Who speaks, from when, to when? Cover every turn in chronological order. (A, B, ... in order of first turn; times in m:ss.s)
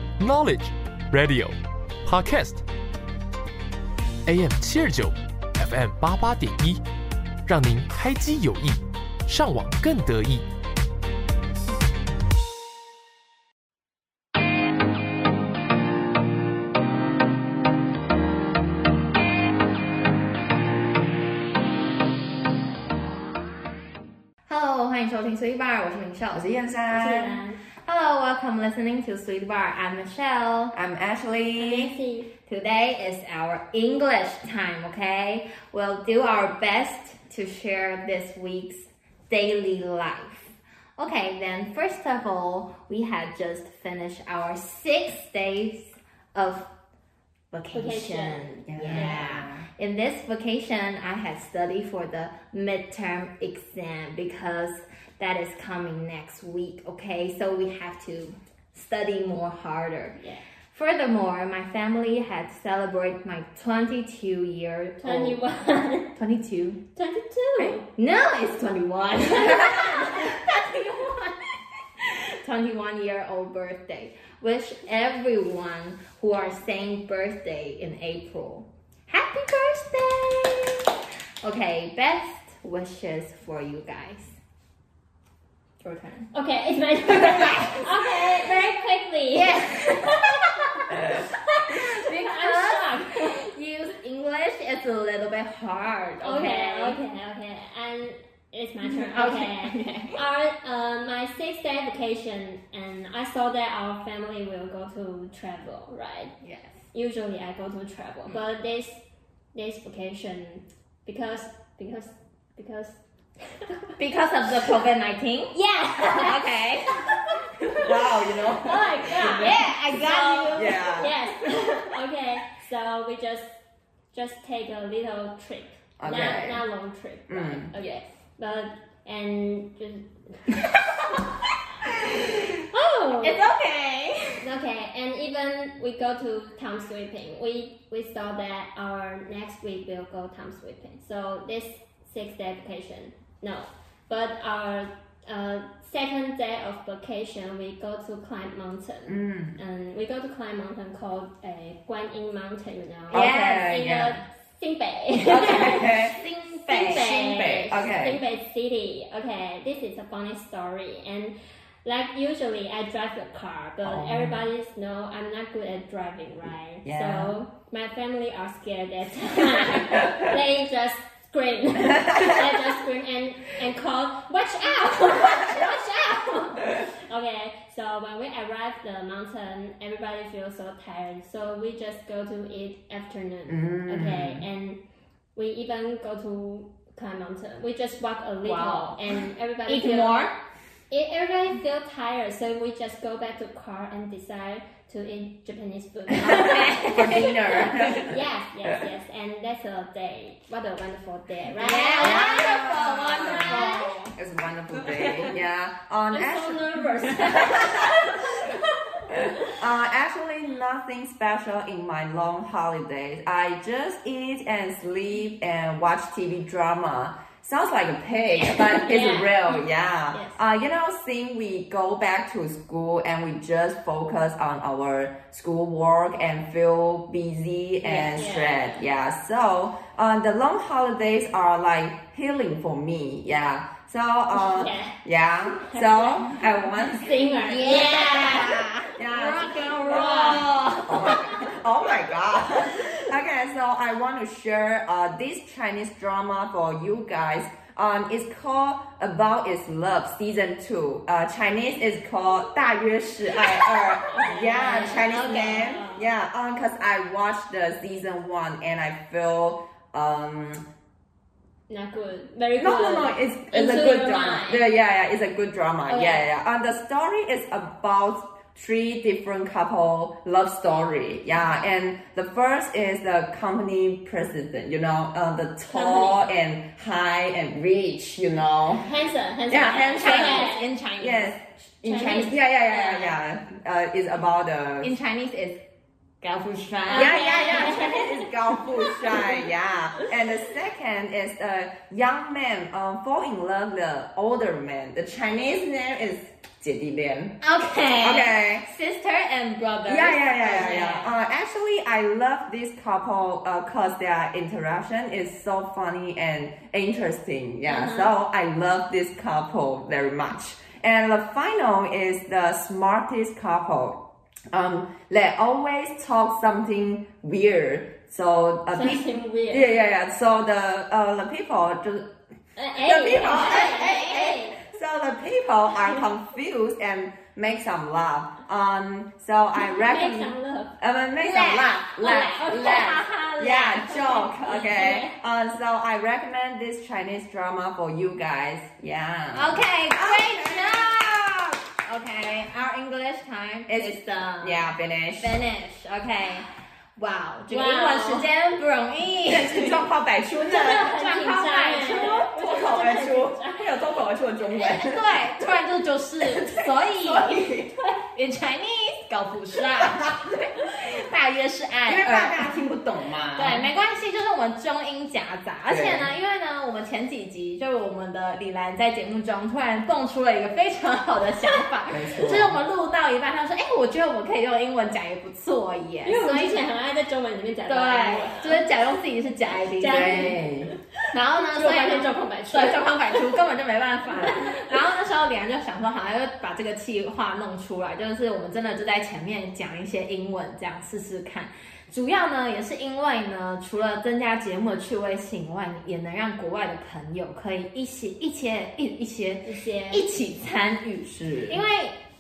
0:00.2-0:02.6 A
0:04.3-0:06.8 A
0:07.5-0:10.5 A
0:24.5-0:26.4 B
0:26.3-0:27.4 C
0:26.9-0:27.6 D
0:27.8-0:30.7 B
0:30.7-0:31.9 C
0:31.6-0:32.3 D
0:32.5-0:46.7 B
0:47.5-1:00.2 B
0:47.7-0:49.3 D
0:48.7-0:49.7 C
1:00.7-1:05.4 B
1:05.0-1:06.1 D
1:06.2-1:06.8 B
1:07.0-1:07.9 D
1:07.6-1:24.4 B
1:09.5-1:10.2 D
1:25.8-1:26.3 B
1:26.3-1:33.4 D
1:27.1-1:28.6 B
1:29.3-1:37.0 B
1:36.2-1:46.3 D
1:38.8-1:40.2 B
1:46.4-1:46.8 B
1:46.9-1:49.0 D
1:49.5-1:53.9 D
1:54.0-1:57.9 B
1:55.5-1:56.6 D
1:57.8-1:59.5 C
1:58.6-2:03.5 D
1:59.1-2:01.0 B
2:00.6-2:01.1 C
2:04.1-2:10.5 D
2:06.0-2:06.6 C
2:07.3-2:07.7 C
2:11.9-2:12.5 B
2:12.7-2:13.4 D
2:13.2-2:14.5 B
2:14.4-2:36.0 D
2:29.1-2:29.6 C
2:33.1-2:33.8 B
2:33.1-2:34.2 C
2:35.2-2:36.2 C
2:35.6-2:37.4 B
2:36.7-3:04.8 D
2:36.8-2:38.2 C
2:43.8-2:44.4 C
2:46.8-2:47.4 C
3:03.5-3:04.4 C
3:05.4-3:10.3 D
3:08.4-3:09.0 B
3:09.7-3:10.4 B
3:10.9-3:17.3 D
3:16.2-3:18.1 B
3:16.9-3:18.1 C
3:17.9-3:22.5 D
3:21.6-3:24.2 B
3:22.0-3:28.0 C
3:23.1-3:24.0 D
3:24.7-3:25.4 B
3:26.1-3:29.5 D
3:29.2-4:20.7 C
3:38.4-3:39.6 D
3:40.1-3:40.4 D
3:47.8-3:48.8 D
3:54.3-3:55.0 D
3:55.5-3:58.5 D
3:57.5-4:01.2 B
3:59.8-4:00.4 D
4:13.4-4:16.1 D
4:14.9-4:15.7 B
4:21.7-4:24.6 D
4:22.6-4:38.8 C
4:25.9-4:26.3 D
4:35.7-4:36.2 D
4:38.8-4:40.6 D
4:39.5-4:45.0 C
4:39.6-4:42.3 B
4:41.8-4:43.2 D
4:44.8-4:45.6 B
4:46.2-4:48.1 B
4:46.9-4:49.3 D
4:46.9-4:57.4 C
4:57.4-5:01.1 B
4:58.0-4:58.7 C
4:59.9-5:14.0 C
5:07.7-5:08.1 D
5:14.5-5:22.1 C
5:18.7-5:19.7 D
5:22.6-5:24.6 D
5:22.8-5:41.2 C
5:23.5-5:24.3 B
5:29.6-5:30.7 D
5:31.2-5:35.1 B
5:32.0-5:33.0 D
5:34.1-5:34.6 D
5:39.3-5:49.9 B
5:43.7-5:45.4 C
5:47.5-5:48.3 D
5:49.3-5:50.9 C
5:50.4-5:53.7 D
5:50.5-5:52.6 B
5:52.4-5:55.0 C
5:54.6-6:02.6 B
5:56.4-5:57.7 C
6:01.9-6:03.6 C
6:03.4-6:16.7 B
6:05.7-6:06.1 C
6:11.9-6:12.6 C
6:16.0-6:18.6 D
6:17.7-6:20.4 B
6:19.8-6:20.5 D
6:19.9-6:20.7 C
6:21.1-6:42.0 B
6:21.4-6:23.4 D
6:24.3-6:24.7 D
6:39.4-6:40.1 D
6:41.1-6:41.6 C